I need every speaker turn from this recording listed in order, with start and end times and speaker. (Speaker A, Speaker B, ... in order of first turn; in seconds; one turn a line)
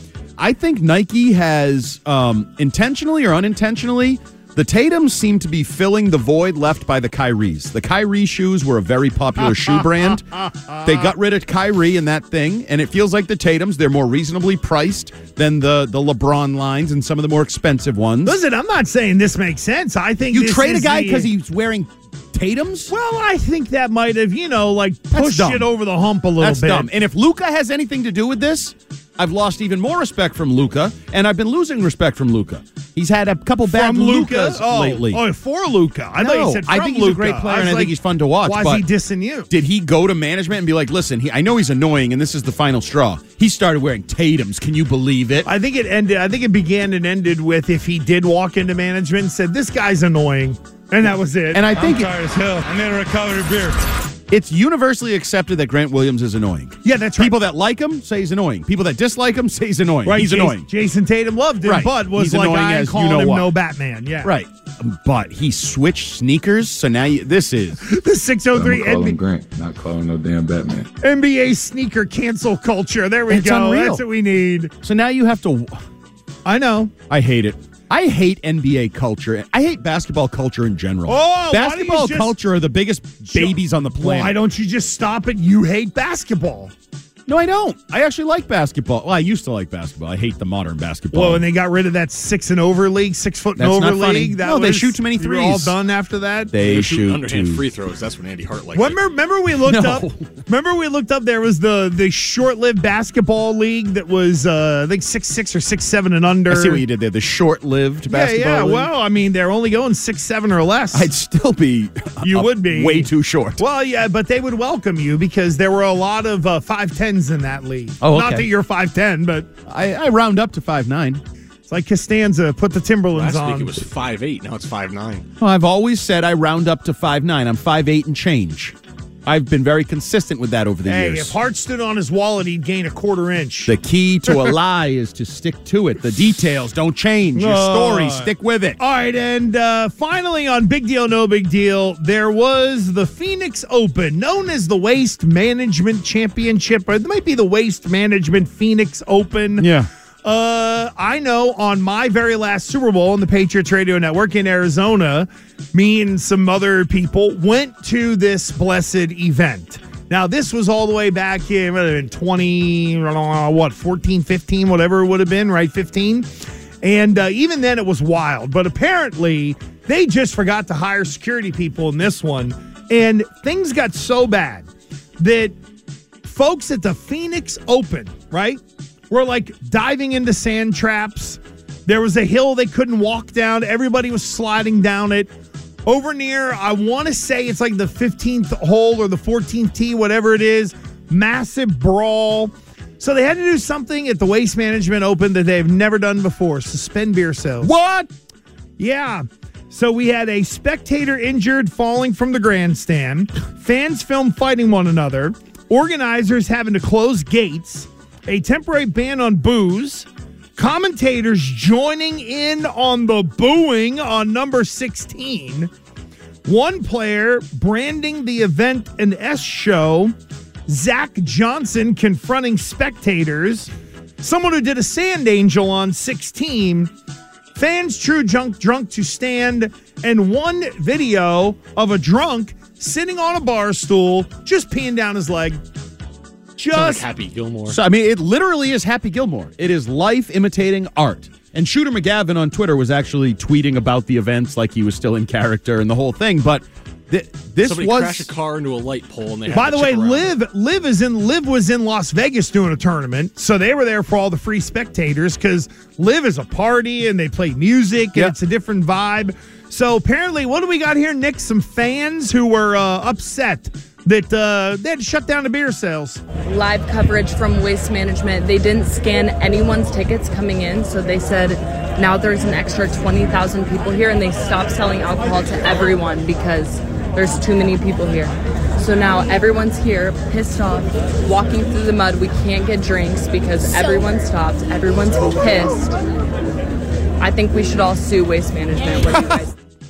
Speaker A: 0.4-18.4
Speaker B: 10.4-10.9
Speaker B: 18.2-21.3
Speaker A: 20.3-22.9
Speaker B: 22.9-26.9
Speaker A: 25.1-25.7
Speaker A: 26.4-35.2
Speaker B: 33.7-39.5
Speaker A: 36.2-38.9
Speaker A: 39.5-45.5
Speaker B: 45.5-52.1
Speaker A: 51.5-52.2
Speaker A: 54.3-60.7
Speaker B: 56.8-57.4
Speaker B: 60.0-64.3
Speaker A: 61.6-63.5
Speaker A: 64.2-67.8
Speaker B: 67.8-69.2
Speaker C: 68.5-70.9
Speaker B: 71.0-74.7
Speaker A: 73.3-74.0
Speaker A: 74.8-75.8
Speaker B: 76.5-76.9
Speaker A: 77.1-84.4
Speaker B: 81.1-82.4
Speaker B: 83.3-86.7
Speaker A: 87.3-91.4
Speaker B: 91.1-96.6
Speaker A: 93.6-95.8
Speaker A: 96.5-97.6
Speaker D: 96.6-99.0
Speaker B: 98.7-106.8
Speaker A: 99.6-100.4
Speaker A: 106.5-108.9
Speaker B: 108.1-111.1
Speaker A: 110.9-113.6
Speaker B: 112.2-119.5
Speaker A: 118.0-118.5
Speaker A: 119.7-121.2
Speaker B: 121.7-123.9
Speaker D: 123.1-125.3
Speaker A: 125.4-131.3
Speaker B: 130.8-133.7
Speaker A: 133.7-138.8
Speaker B: 134.3-134.5
Speaker B: 137.4-149.7
Speaker A: 149.6-149.9
Speaker B: 150.2-166.3
Speaker B: 166.8-175.6
Speaker B: 176.2-185.3
Speaker B: 185.9-197.8
Speaker A: 197.6-198.1
Speaker B: 198.8-215.7
Speaker B: 216.5-220.1
Speaker B: 220.7-223.7
Speaker B: 224.2-226.9
Speaker B: 227.6-235.6
Speaker B: 236.6-237.1
Speaker D: 236.7-237.8
Speaker A: 237.7-248.3
Speaker D: 247.6-250.3
Speaker B: 249.5-266.2
Speaker E: 266.4-286.0
Speaker E: 287.2-289.6